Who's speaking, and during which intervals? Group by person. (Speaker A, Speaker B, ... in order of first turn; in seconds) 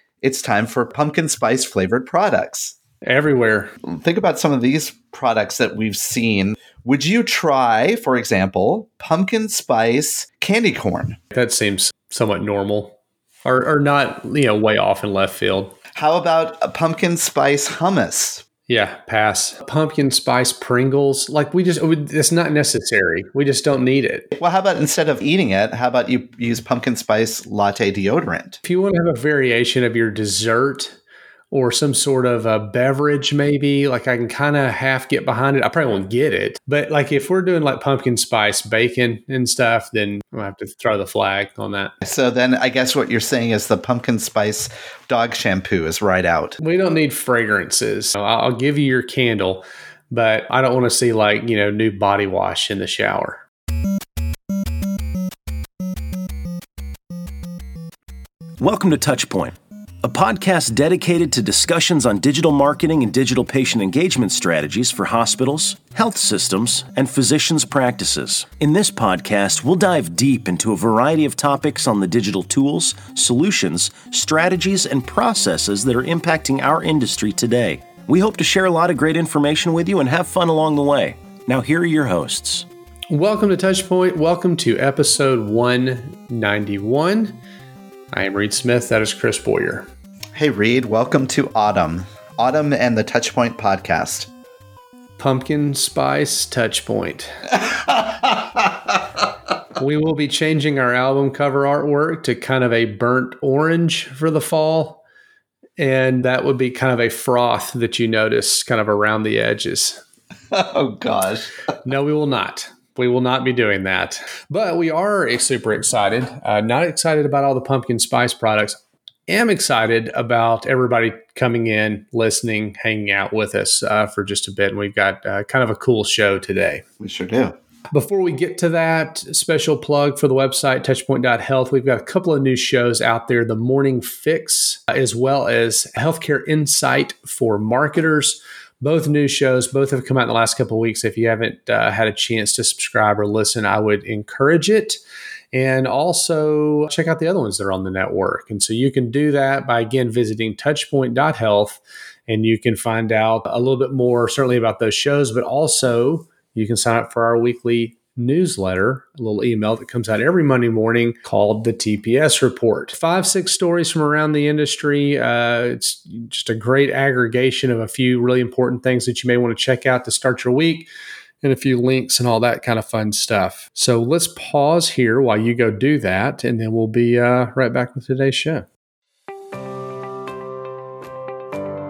Speaker A: 0.2-2.8, 3.8-11.2, 15.9-18.4, 24.4-28.6, 42.0-46.6, 90.3-94.3, 110.5-111.5, 127.0-127.6
Speaker B: 3.0-3.7, 11.3-15.8, 18.7-24.3, 28.6-31.0, 31.5-41.9, 46.6-53.4, 83.1-87.4, 88.1-89.9, 95.2-97.5, 99.8-105.0, 105.8-110.0, 111.8-126.8, 127.9-145.0, 145.5-170.9, 171.4-178.7
Speaker C: 58.6-82.7